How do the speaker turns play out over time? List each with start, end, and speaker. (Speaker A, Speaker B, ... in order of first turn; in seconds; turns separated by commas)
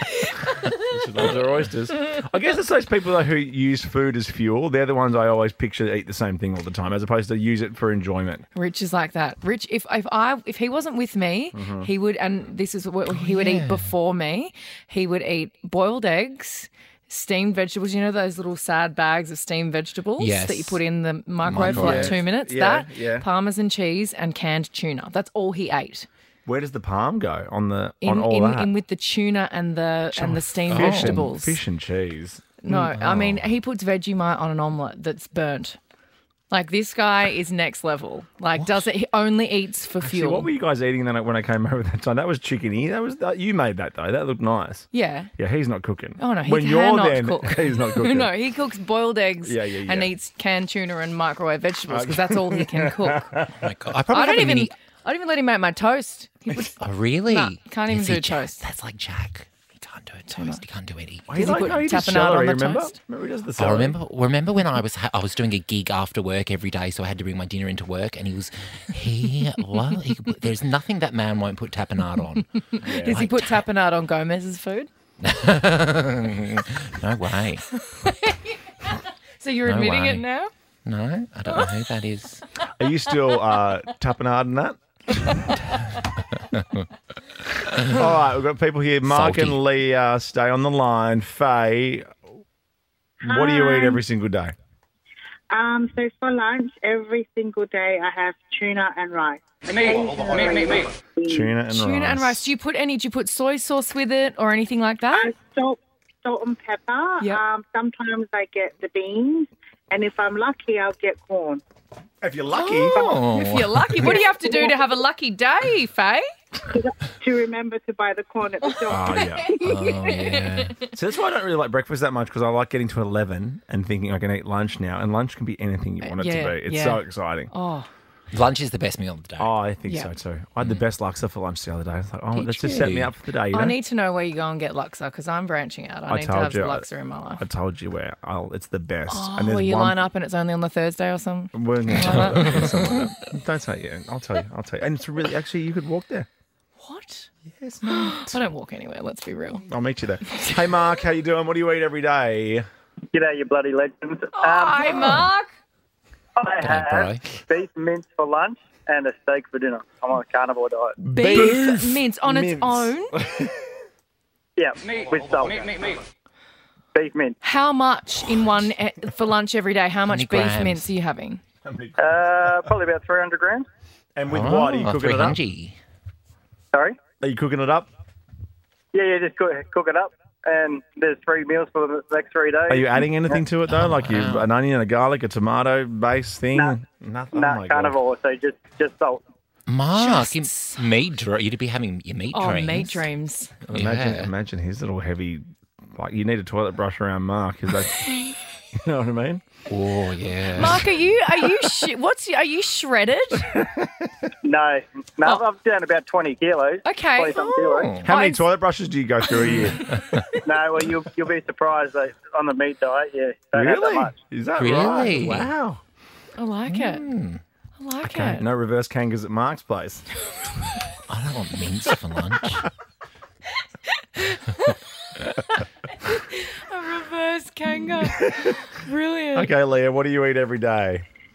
Speaker A: 0.7-8.4, Speaker B: 8.5-26.1, Speaker A: 11.5-11.9, Speaker C: 13.1-13.9, Speaker C: 20.2-20.8, Speaker C: 21.4-22.2, Speaker A: 21.7-23.3, Speaker A: 26.4-28.7, Speaker B: 28.0-31.6, Speaker A: 30.1-32.5, Speaker C: 30.7-31.2, Speaker B: 32.6-35.8, Speaker C: 32.7-33.4, Speaker B: 36.5-40.5, Speaker A: 40.0-48.3, Speaker B: 44.9-45.3, Speaker B: 46.2-53.3, Speaker A: 49.4-50.1, Speaker A: 51.9-53.7, Speaker C: 53.6-54.7, Speaker B: 54.1-58.6, Speaker C: 56.8-61.8, Speaker B: 60.3-60.6, Speaker A: 61.3-64.0, Speaker B: 61.3-63.0, Speaker C: 63.6-73.6, Speaker B: 72.7-74.9, Speaker A: 72.8-73.3, Speaker C: 75.2-77.6, Speaker B: 77.7-80.5, Speaker C: 79.6-80.2, Speaker C: 80.8-82.4, Speaker A: 82.8-85.3, Speaker B: 83.1-83.6, Speaker C: 85.8-86.6, Speaker A: 87.8-92.1, Speaker C: 89.1-89.6, Speaker D: 93.2-94.0, Speaker A: 93.2-94.5, Speaker D: 95.5-101.5, Speaker A: 101.2-102.5, Speaker B: 101.7-105.3, Speaker D: 105.1-111.6, Speaker A: 112.2-113.0, Speaker C: 112.5-114.1, Speaker D: 112.9-114.8, Speaker B: 113.2-116.2, Speaker D: 116.7-119.3, Speaker B: 118.6-120.9, Speaker A: 118.9-119.5, Speaker C: 119.6-120.7, Speaker A: 120.9-127.5, Speaker B: 126.0-127.9, Speaker C: 128.3-129.5, Speaker A: 129.4-133.8, Speaker C: 132.3-133.1, Speaker B: 132.7-132.9, Speaker B: 133.5-137.4, Speaker A: 136.1-136.9, Speaker A: 137.4-140.0, Speaker B: 139.1-143.0, Speaker A: 141.5-146.3, Speaker C: 142.1-142.7, Speaker B: 146.8-147.3, Speaker A: 147.6-148.4, Speaker B: 147.8-149.6, Speaker A: 149.7-152.7, Speaker B: 150.3-150.6, Speaker E: 153.1-155.1, Speaker B: 154.3-155.5, Speaker E: 156.3-161.0, Speaker C: 156.6-157.4, Speaker B: 161.0-163.1, Speaker A: 161.1-163.5, Speaker E: 164.6-165.9, Speaker E: 166.9-167.3, Speaker B: 167.4-171.4, Speaker C: 170.1-170.9, Speaker A: 171.6-172.7, Speaker E: 172.0-173.7, Speaker A: 174.2-175.4, Speaker C: 174.3-175.8, Speaker A: 177.2-177.9, Speaker E: 178.9-183.4, Speaker A: 182.7-188.0, Speaker C: 183.7-184.5, Speaker E: 187.3-189.2, Speaker C: 189.7-193.1, Speaker B: 189.9-190.8, Speaker B: 192.3-193.6, Speaker A: 193.7-195.4, Speaker C: 193.7-194.3, Speaker A: 195.9-198.1, Speaker A: 198.8-199.4, Speaker C: 199.7-200.8, Speaker B: 200.5-203.5, Speaker A: 203.5-203.9, Speaker E: 204.4-208.0, Speaker B: 206.8-208.5, Speaker C: 207.7-208.1, Speaker A: 208.0-209.9, Speaker C: 209.9-210.2, Speaker E: 210.4-214.1, Speaker A: 213.6-215.8, Speaker C: 214.6-215.5, Speaker B: 216.3-217.1, Speaker C: 216.7-217.4, Speaker B: 217.8-218.4, Speaker A: 218.0-220.0, Speaker C: 221.1-222.7, Speaker B: 224.1-229.5, Speaker A: 228.1-228.6, Speaker A: 229.3-231.0